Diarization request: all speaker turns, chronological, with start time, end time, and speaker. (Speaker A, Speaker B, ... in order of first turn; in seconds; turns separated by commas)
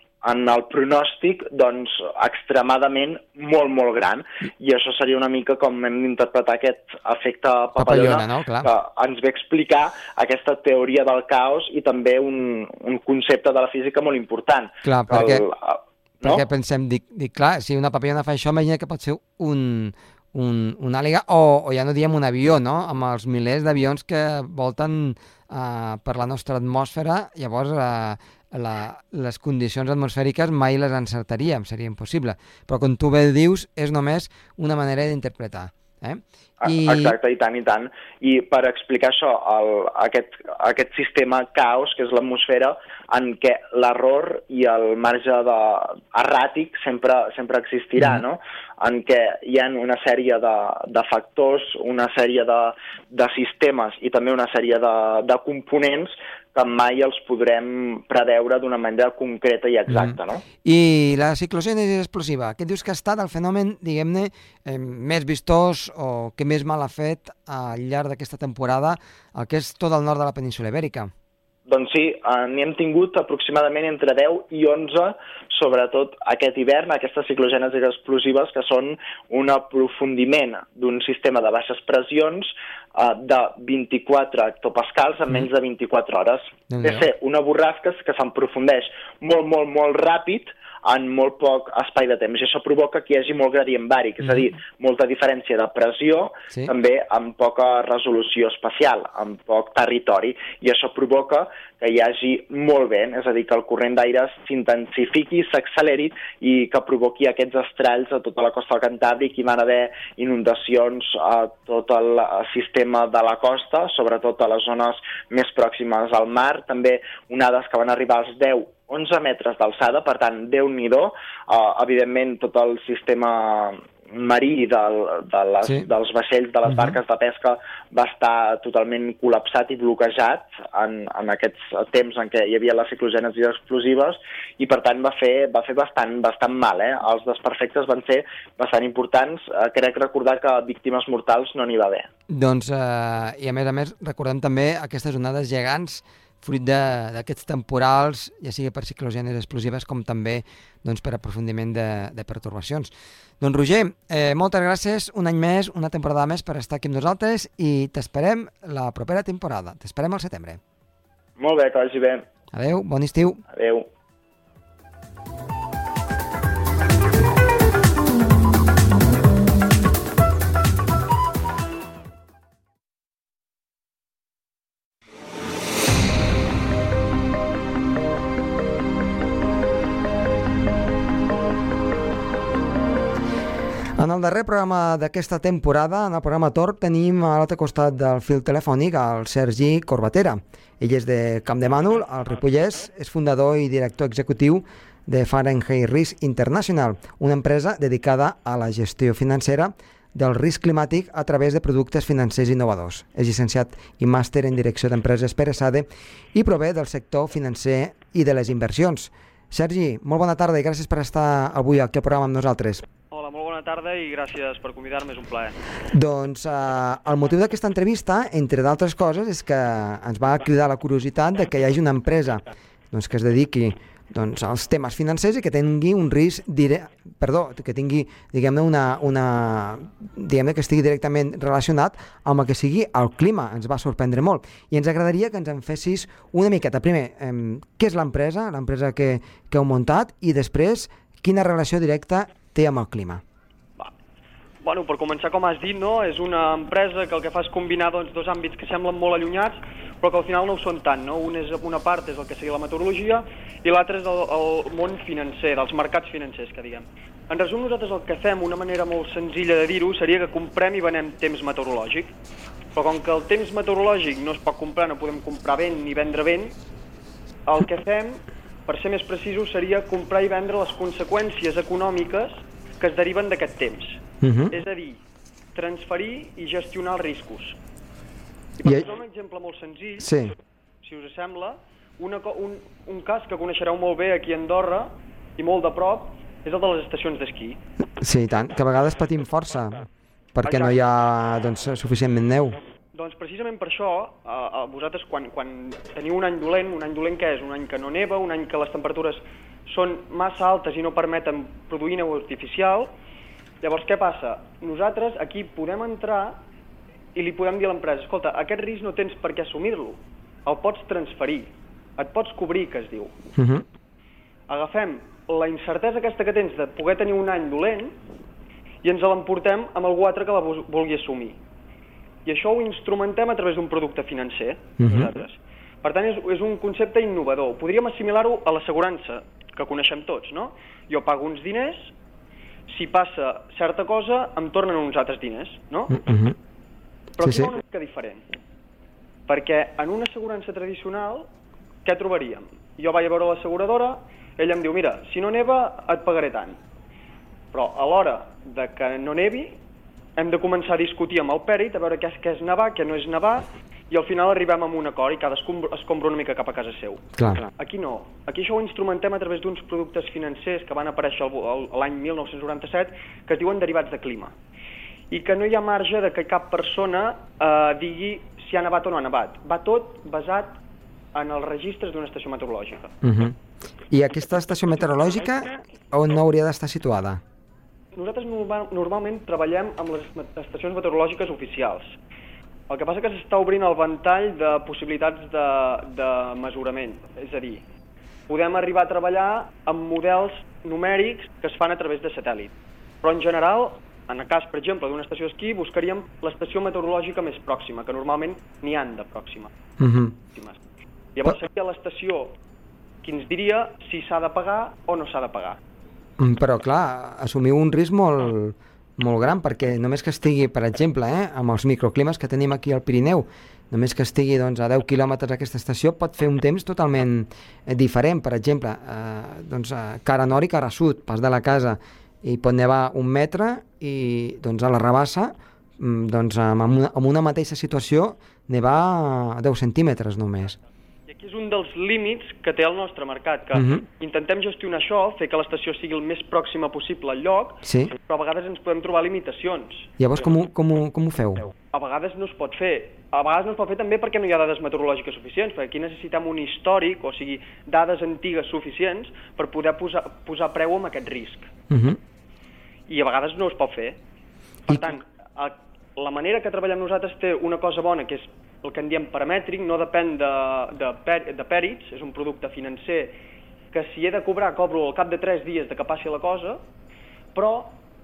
Speaker A: 0.2-16.4, Speaker B: 7.8-8.7, Speaker B: 14.8-15.4, Speaker B: 16.2-37.2, Speaker A: 36.6-60.4, Speaker B: 59.9-71.1, Speaker A: 71.7-142.1, Speaker B: 86.7-87.1, Speaker B: 125.6-125.9, Speaker B: 126.7-127.0, Speaker B: 142.3-160.6, Speaker A: 161.4-162.3, Speaker B: 162.5-163.4, Speaker A: 163.5-163.9, Speaker B: 184.0-212.9, Speaker C: 213.1-215.6, Speaker B: 215.9-243.2, Speaker C: 244.6-262.1, Speaker C: 262.8-266.5, Speaker C: 267.5-275.0, Speaker B: 274.2-274.5, Speaker C: 275.5-277.6, Speaker C: 278.6-280.2, Speaker B: 280.0-280.3, Speaker C: 280.8-287.6, Speaker B: 288.0-292.6, Speaker C: 290.4-290.8, Speaker C: 292.9-302.9, Speaker C: 303.6-306.4, Speaker C: 307.1-313.2, Speaker B: 313.4-313.6, Speaker C: 314.5-317.9, Speaker C: 318.8-321.4, Speaker C: 322.3-331.9, Speaker B: 324.8-325.1, Speaker C: 332.7-336.0, Speaker B: 335.9-336.4, Speaker C: 337.2-338.2, Speaker B: 337.2-337.5, Speaker C: 339.3-341.3, Speaker C: 341.9-346.6, Speaker C: 347.5-349.6, Speaker C: 350.2-364.3, Speaker B: 357.2-357.5, Speaker C: 365.1-370.6, Speaker C: 371.1-372.9, Speaker B: 373.0-373.4, Speaker B: 373.9-377.2, Speaker C: 377.9-382.0, Speaker C: 382.7-387.6, Speaker C: 388.3-399.5, Speaker B: 399.8-400.2, Speaker C: 400.3-400.6, Speaker C: 401.2-402.4, Speaker C: 403.0-405.6, Speaker B: 406.2-430.6, Speaker C: 431.1-439.9, Speaker B: 433.5-433.9, Speaker B: 437.6-437.9, Speaker B: 440.0-441.5, Speaker C: 441.7-451.5, Speaker B: 451.7-452.0, Speaker C: 452.9-454.0, Speaker C: 454.7-463.1, Speaker C: 463.7-466.6, Speaker C: 467.4-467.7